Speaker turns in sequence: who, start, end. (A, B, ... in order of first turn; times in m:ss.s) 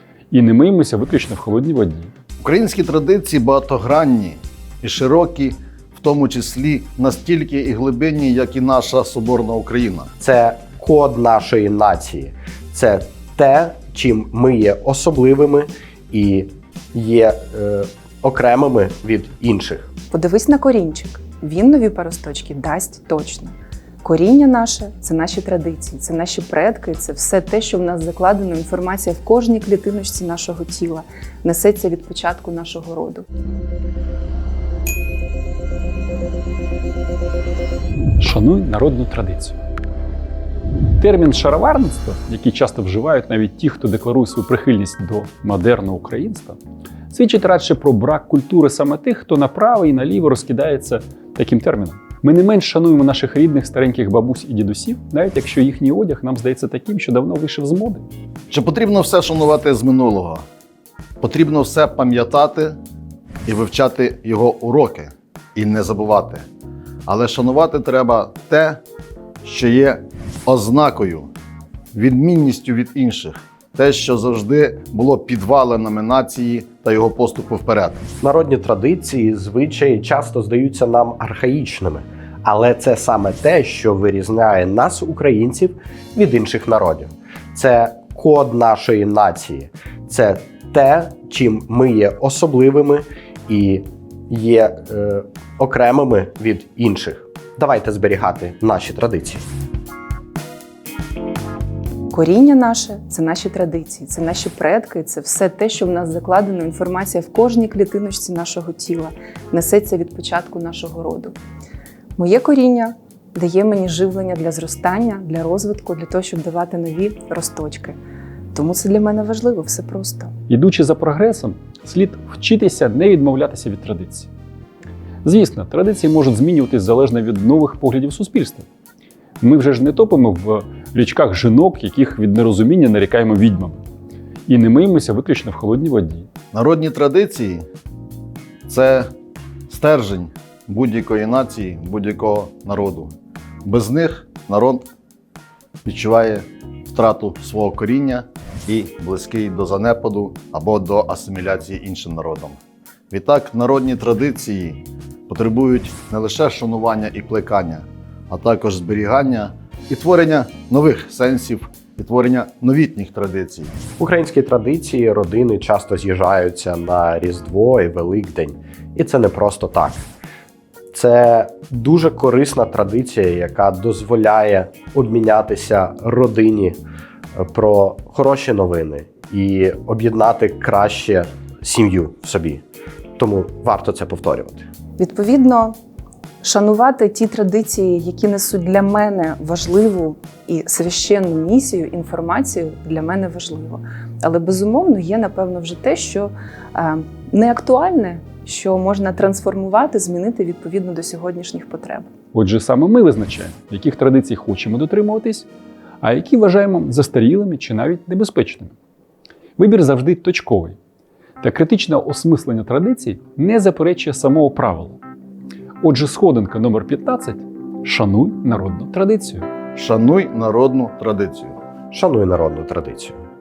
0:00.3-0:02.1 A
0:02.4-0:10.1 B
0:10.2-0:19.9 C
0:20.1-0:33.3 D
0:38.2-0:39.6 A
0:41.0-0:46.6 A
0:47.1-0:58.0 A
0:58.5-1:00.4 B
1:01.2-1:02.8 B
1:03.5-1:06.5 B
1:07.1-1:08.8 B
1:09.4-1:11.3 B
1:11.9-1:18.0 B
1:18.2-1:39.4 C
1:42.1-1:51.4 D
1:52.2-1:58.0 D
1:58.5-2:00.3 D
2:00.5-2:04.3 A
2:05.2-2:08.7 A
2:09.4-2:13.8 A
2:14.5-2:16.3 A
2:16.5-2:17.6 B
2:18.7-2:19.1 B
2:19.7-2:23.1 B
2:23.6-2:24.9 B
2:25.8-2:32.6 B
2:33.1-2:43.7 B
2:44.0-2:50.0 C
2:50.9-2:56.8 C
2:57.4-3:02.6 C
3:03.2-3:04.7 C
3:05.0-3:05.8 D
3:06.4-3:22.1 D
3:22.3-3:25.5 A
3:26.0-3:28.7 A
3:29.6-3:30.8 A
3:31.4-3:35.0 A
3:35.8-3:39.5 A
3:39.8-3:41.6 B
3:41.9-3:43.2 C